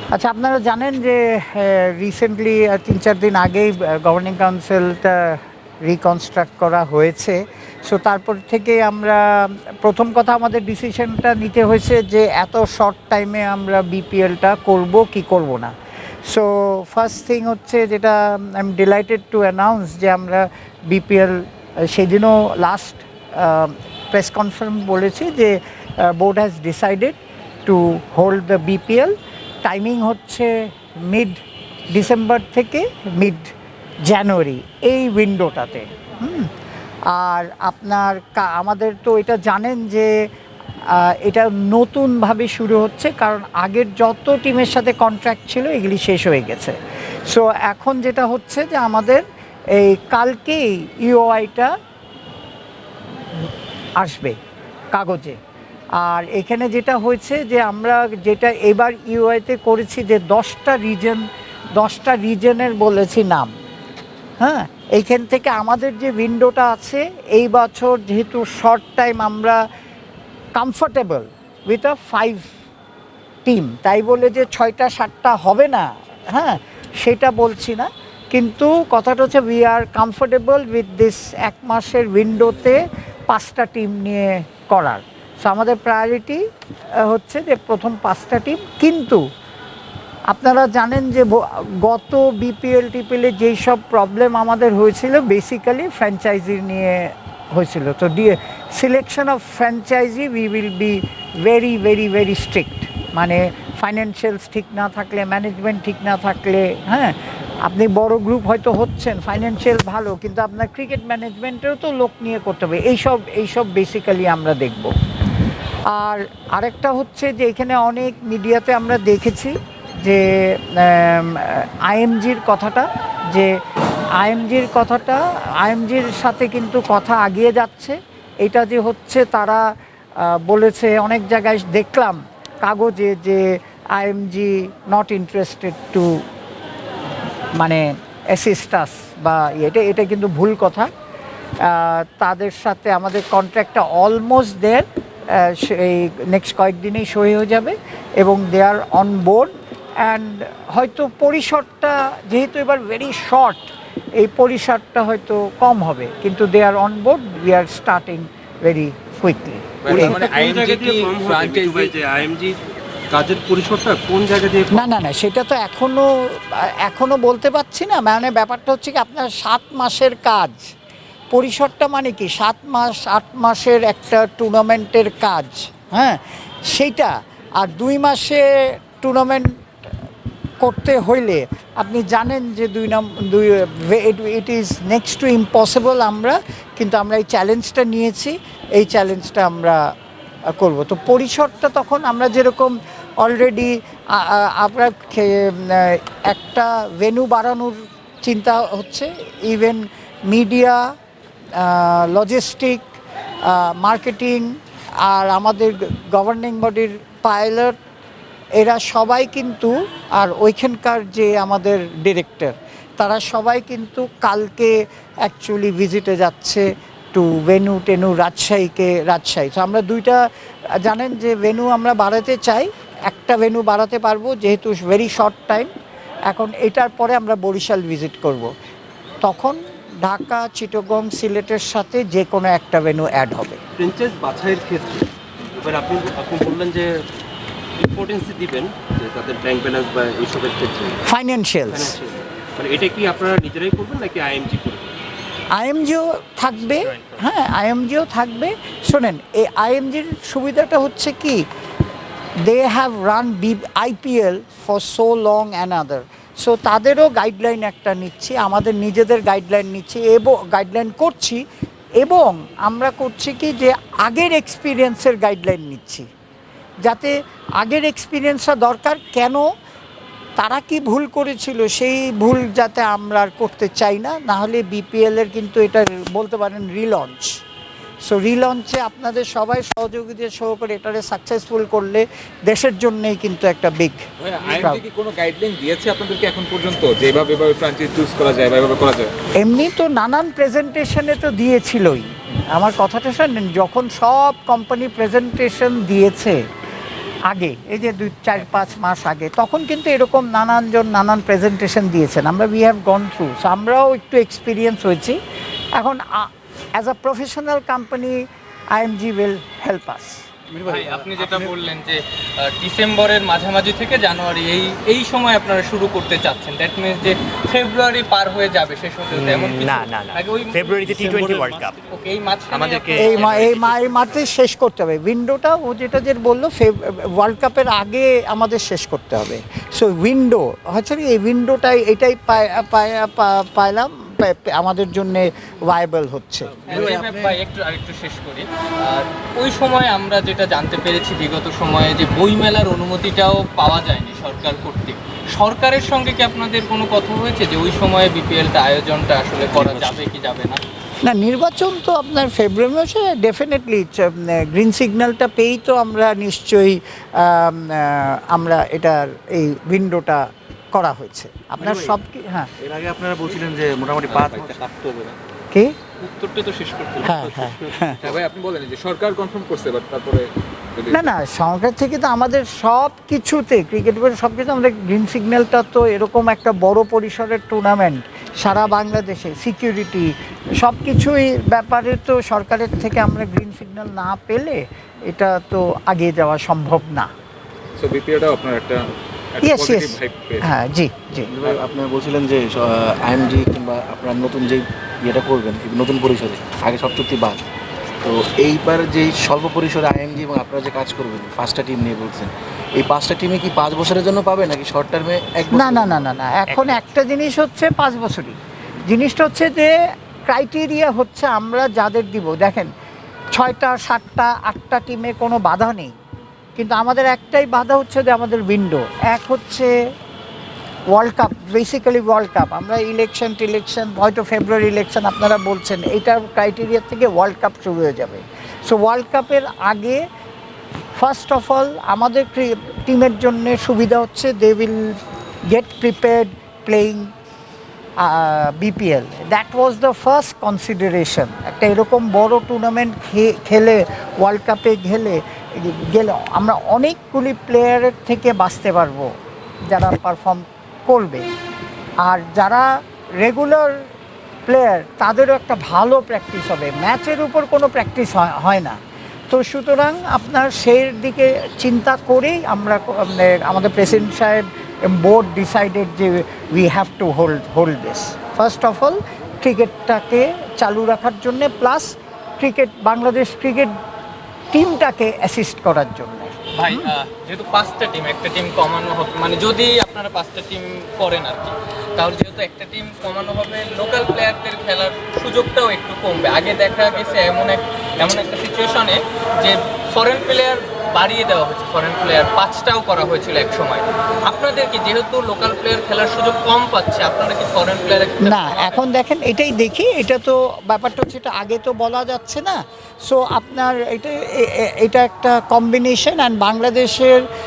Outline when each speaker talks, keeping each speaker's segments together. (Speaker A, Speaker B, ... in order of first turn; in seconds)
Speaker A: 0.1-15.7, 16.3-33.5, 34.1-36.5, 37.1-40.1, 40.9-46.8, 47.3-49.2, 49.8-51.7, 54.0-54.4, 54.9-55.4, 56.0-61.2, 61.8-63.5, 64.4-69.6, 70.6-72.5, 73.5-86.4, 87.0-89.2, 90.3-114.9, 115.9-123.5, 124.2-129.6, 130.2-136.1, 137.6-140.9, 141.7-144.8, 145.3-149.5, 150.0-153.6, 154.2-160.4, 164.7-170.6, 171.3-179.5, 180.6-189.8, 190.6-200.8, 201.6-202.8, 203.4-204.5, 205.0-207.8, 208.6-220.2, 220.8-225.7, 226.3-228.5, 229.2-233.6, 241.1-241.9, 245.5-251.4, 252.4-261.4, 262.0-266.1, 266.8-269.5, 270.4-277.4, 278.1-284.0, 284.5-284.8, 289.4-296.4, 297.3-305.2, 305.8-308.2, 308.7-310.2, 323.0-336.6, 351.0-362.5, 367.0-368.0, 370.9-387.1, 389.4-391.3, 405.5-409.7, 410.3-412.7, 413.4-415.9, 416.6-419.7, 420.9-430.0, 430.9-437.1, 438.0-449.1, 449.7-451.3, 452.0-452.7, 453.2-453.8, 454.5-458.8, 459.3-473.7, 474.5-476.9, 498.2-507.3
Speaker B: 159.9-162.6, 163.1-164.9, 233.8-235.1, 235.6-236.9, 237.8-241.0, 241.7-244.9, 366.0-368.2
Speaker C: 246.8-247.2, 319.1-321.7, 322.5-323.9, 406.5-406.8
Speaker D: 284.2-289.1, 368.0-371.1, 387.8-390.5
Speaker E: 310.6-321.3, 321.9-323.6, 336.7-350.6, 476.6-498.8
Speaker F: 336.7-337.4, 361.6-362.0, 362.6-365.1, 391.3-397.4, 398.0-406.1